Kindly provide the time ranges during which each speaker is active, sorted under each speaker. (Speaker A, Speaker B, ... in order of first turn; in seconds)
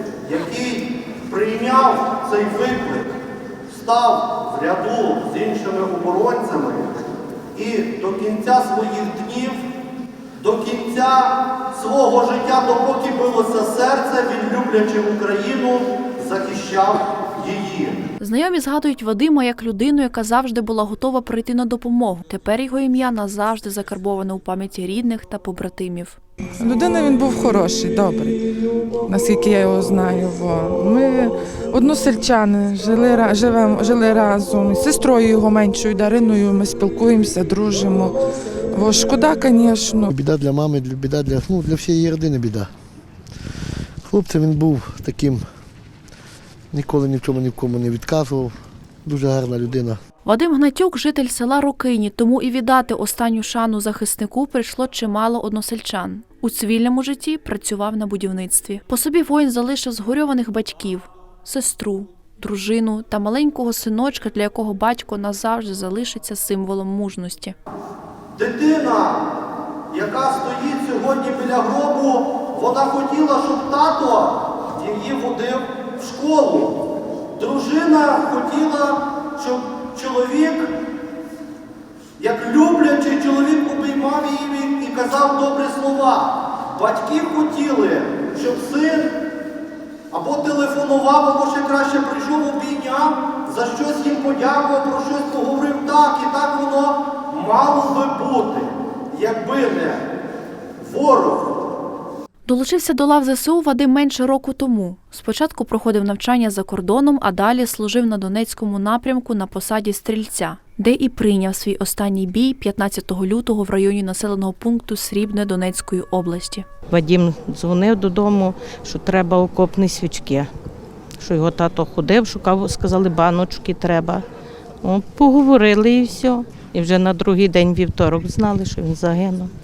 Speaker A: 0.2-3.1, 3.7-9.6, 10.4-18.0, 68.4-69.2, 69.9-76.8, 77.4-80.7, 82.2-89.2, 90.1-100.0, 100.8-101.5
Speaker B: 18.2-26.2, 50.2-67.5, 102.5-116.7
Speaker C: 26.6-28.4, 29.1-38.2, 38.7-40.1
Speaker D: 40.1-42.7, 44.0-45.5, 46.7-50.0
Speaker E: 116.9-120.5, 121.2-124.2, 124.8-129.5